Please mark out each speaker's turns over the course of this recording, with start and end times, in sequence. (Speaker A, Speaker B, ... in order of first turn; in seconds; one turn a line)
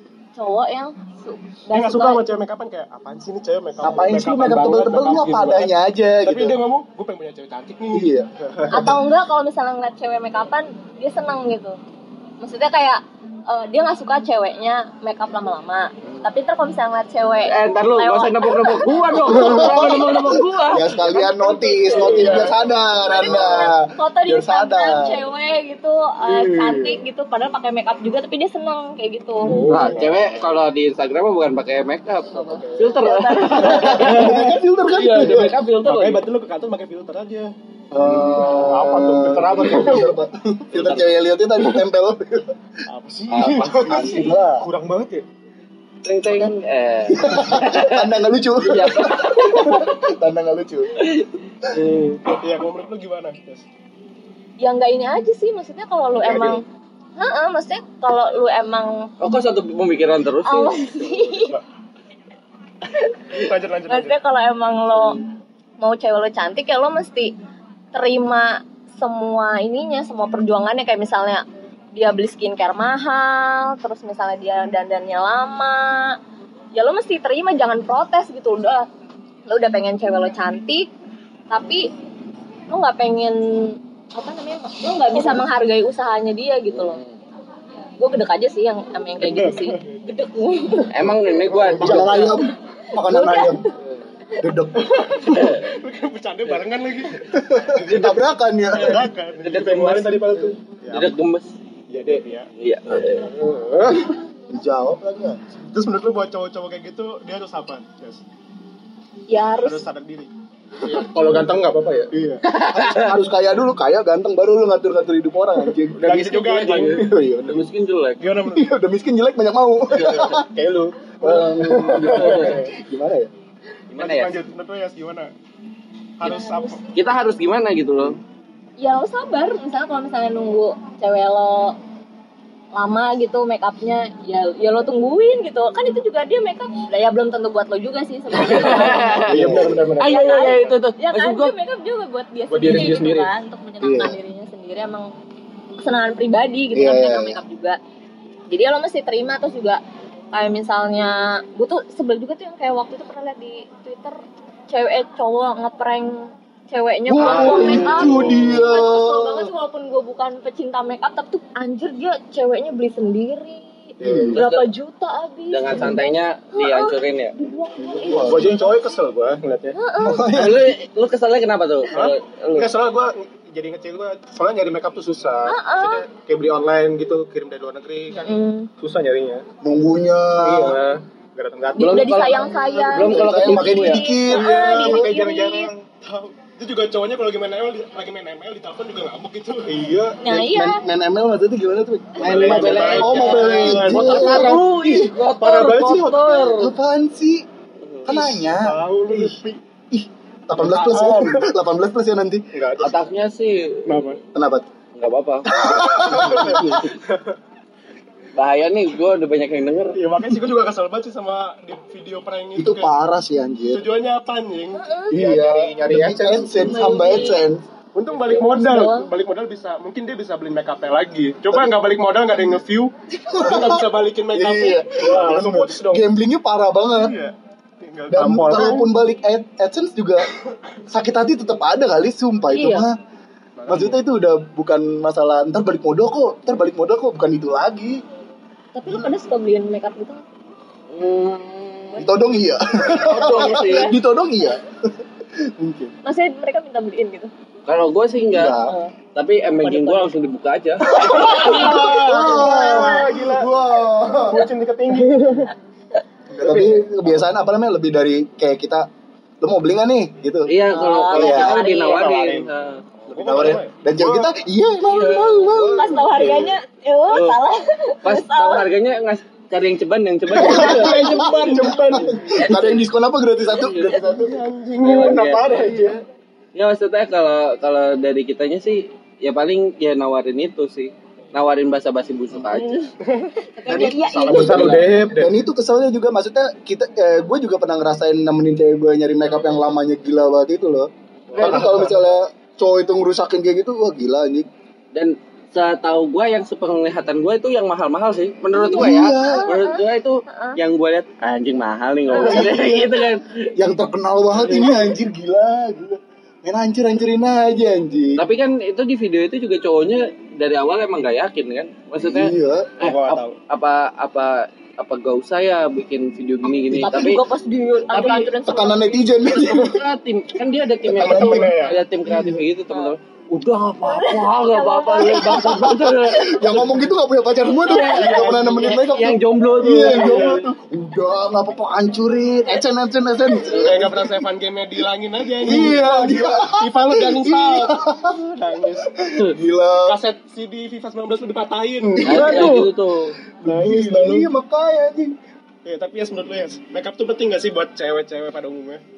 Speaker A: 0.3-2.3
Speaker B: 1.7-5.7
Speaker C: 3.8-6.6
Speaker B: 6.2-8.8
Speaker C: 7.9-9.0
Speaker A: 8.7-11.8
Speaker A: 12.4-20.0
Speaker D: 17.4-21.1
Speaker C: 19.3-25.2
Speaker A: 21.4-29.6
Speaker B: 21.8-22.6
Speaker D: 26.3-27.0
Speaker B: 29.5-30.6
Speaker C: 29.5-30.0
Speaker E: 29.6-30.1
Speaker D: 29.7-36.2
Speaker A: 32.3-34.1
Speaker C: 33.5-35.5
Speaker B: 33.5-34.6
Speaker B: 35.8-37.5
Speaker C: 37.9-42.5
Speaker B: 38.3-40.1
Speaker E: 38.7-39.7
Speaker D: 39.6-40.0
Speaker D: 40.7-41.1
Speaker B: 42.9-44.4
Speaker D: 43.3-44.4
Speaker C: 43.9-44.6
Speaker E: 44.6-45.2
Speaker D: 46.0-49.9
Speaker C: 47.1-51.0
Speaker D: 51.0-52.2
Speaker B: 52.4-53.6
Speaker A: 54.6-56.6
Speaker B: 56.2-56.6
Speaker A: 57.2-59.1
Speaker D: 59.2-61.4
Speaker A: 60.4-61.6
Speaker A: 62.9-65.2
Speaker B: 63.3-64.2
Speaker A: 65.8-67.3
Speaker A: 67.9-76.2
Speaker A: 76.7-78.9
Speaker A: 79.5-80.9
Speaker A: 81.5-81.9
Speaker A: 82.7-87.0
Speaker D: 86.7-87.1
Speaker A: 88.0-91.0
Speaker B: 89.2-89.8
Speaker D: 90.9-92.3
Speaker B: 91.5-92.3
Speaker C: 91.7-93.7
Speaker A: 93.0-93.7
Speaker C: 94.4-95.1
Speaker B: 94.8-98.2
Speaker D: 95.3-95.6
Speaker C: 97.3-99.1
Speaker B: 98.7-101.1
Speaker D: 98.7-101.5
Speaker B: 101.9-102.5
Speaker D: 102.6-103.3
Speaker B: 103.3-104.1
Speaker E: 103.4-104.0
Speaker C: 104.5-105.4
Speaker B: 105.6-108.2
Speaker A: 109.3-109.8
Speaker B: 109.6-110.3
Speaker E: 110.8-112.1
Speaker B: 110.8-111.4
Speaker B: 112.1-112.4
Speaker D: 112.4-113.1
Speaker C: 112.6-116.0
Speaker D: 115.9-118.2
Speaker B: 116.0-117.1
Speaker C: 116.8-117.6
Speaker B: 118.2-118.7
Speaker C: 118.5-120.5
Speaker B: 119.9-122.7
Speaker E: 120.6-120.9
Speaker C: 121.2-123.3
Speaker D: 122.1-122.6
Speaker D: 123.9-124.4
Speaker B: 124.0-125.3
Speaker B: 126.2-126.8
Speaker A: 126.2-126.8
Speaker D: 126.9-128.2
Speaker A: 128.8-131.8
Speaker A: 132.7-139.3
Speaker D: 138.3-141.5
Speaker C: 139.3-139.8
Speaker E: 139.3-140.2
Speaker A: 140.0-145.1
Speaker E: 142.5-143.3
Speaker B: 142.6-143.1
Speaker C: 143.8-144.2
Speaker A: 145.8-147.8
Speaker C: 146.7-147.4
Speaker A: 148.5-149.8
Speaker A: 150.3-154.2
Speaker A: 154.7-168.8
Speaker C: 157.1-159.5
Speaker D: 157.2-158.6
Speaker C: 164.0-164.4
Speaker B: 164.0-164.3
Speaker D: 164.3-164.7
Speaker D: 165.5-167.3
Speaker C: 167.8-168.5
Speaker E: 168.2-169.8
Speaker A: 169.7-170.3
Speaker C: 170.0-170.8
Speaker D: 170.3-172.7
Speaker B: 171.9-174.3
Speaker E: 173.6-179.4
Speaker A: 175.4-176.0
Speaker A: 178.2-178.7
Speaker C: 179.6-180.8
Speaker E: 180.4-181.9
Speaker D: 181.8-184.1
Speaker A: 181.8-185.7
Speaker C: 182.7-185.1
Speaker B: 184.3-190.1
Speaker E: 189.7-190.2
Speaker A: 190.2-190.8
Speaker C: 190.2-195.1
Speaker D: 192.2-196.7
Speaker B: 192.2-194.7
Speaker E: 192.5-192.9
Speaker B: 195.2-196.5
Speaker E: 195.5-196.0
Speaker C: 196.5-197.4
Speaker C: 198.0-199.3
Speaker B: 198.1-199.6
Speaker E: 198.9-199.3
Speaker C: 199.9-202.8
Speaker B: 200.6-201.5
Speaker B: 202.5-202.9
Speaker D: 202.8-204.1
Speaker B: 203.8-204.2
Speaker C: 204.3-204.7
Speaker D: 204.9-205.5
Speaker C: 205.5-206.8
Speaker B: 205.6-207.3
Speaker D: 206.2-206.8
Speaker D: 208.3-210.0
Speaker B: 209.9-212.9
Speaker C: 212.6-213.8
Speaker B: 213.7-214.8
Speaker A: 214.8-215.2
Speaker C: 215.1-217.6
Speaker E: 215.1-216.6
Speaker A: 216.5-217.4
Speaker B: 217.9-226.1
Speaker A: 218.2-219.1
Speaker C: 223.3-227.2
Speaker E: 225.1-225.5
Speaker B: 226.9-228.8
Speaker C: 228.1-230.3
Speaker E: 228.2-228.8
Speaker C: 230.9-232.9
Speaker A: 232.5-232.9
Speaker B: 233.6-234.0
Speaker C: 233.7-238.0
Speaker A: 238.7-240.2
Speaker D: 240.9-242.1
Speaker C: 242.0-245.0
Speaker D: 243.0-244.0
Speaker A: 243.1-243.9
Speaker C: 245.6-245.9
Speaker A: 246.0-247.3
Speaker D: 247.7-248.6
Speaker C: 248.3-248.8
Speaker A: 248.6-248.9
Speaker D: 249.1-251.3
Speaker B: 249.6-250.1
Speaker A: 250.9-253.2
Speaker B: 251.0-253.5
Speaker C: 251.0-254.5
Speaker B: 254.3-255.5
Speaker E: 254.4-255.3
Speaker C: 256.3-258.9
Speaker B: 256.4-256.8
Speaker C: 259.4-260.5
Speaker D: 260.4-262.8
Speaker A: 260.7-262.2
Speaker C: 261.1-261.6
Speaker B: 261.3-264.3
Speaker C: 263.1-266.5
Speaker D: 264.9-265.6
Speaker A: 265.5-268.6
Speaker D: 267.1-267.4
Speaker D: 268.0-271.8
Speaker B: 270.3-272.3
Speaker C: 270.3-274.5
Speaker A: 272.4-272.8
Speaker D: 273.5-274.0
Speaker B: 274.1-276.0
Speaker D: 274.8-275.8
Speaker E: 275.0-275.9
Speaker D: 276.5-282.9
Speaker A: 282.5-282.9
Speaker B: 283.0-283.3
Speaker A: 283.5-284.8
Speaker D: 283.7-284.9
Speaker C: 283.8-294.5
Speaker B: 284.3-285.1
Speaker E: 284.3-285.3
Speaker B: 291.3-291.9
Speaker D: 291.3-291.8
Speaker D: 294.9-303.5
Speaker A: 298.5-300.6
Speaker C: 298.7-299.5
Speaker C: 302.1-308.2
Speaker D: 304.4-304.8
Speaker D: 308.1-317.2
Speaker C: 312.0-312.8
Speaker B: 312.8-313.2
Speaker E: 312.9-313.3
Speaker A: 316.7-319.0
Speaker D: 317.9-318.3
Speaker C: 318.4-319.8
Speaker D: 319.3-326.7
Speaker C: 320.9-322.4
Speaker B: 320.9-321.8
Speaker A: 323.8-325.7
Speaker C: 325.3-334.3
Speaker D: 327.6-330.5
Speaker B: 327.7-328.9
Speaker B: 329.8-330.4
Speaker B: 333.4-338.9
Speaker D: 333.5-333.8
Speaker C: 335.4-340.0
Speaker B: 339.8-342.7
Speaker C: 342.0-342.7
Speaker D: 342.0-343.2
Speaker C: 343.4-345.1
Speaker B: 343.4-344.3
Speaker B: 345.6-348.8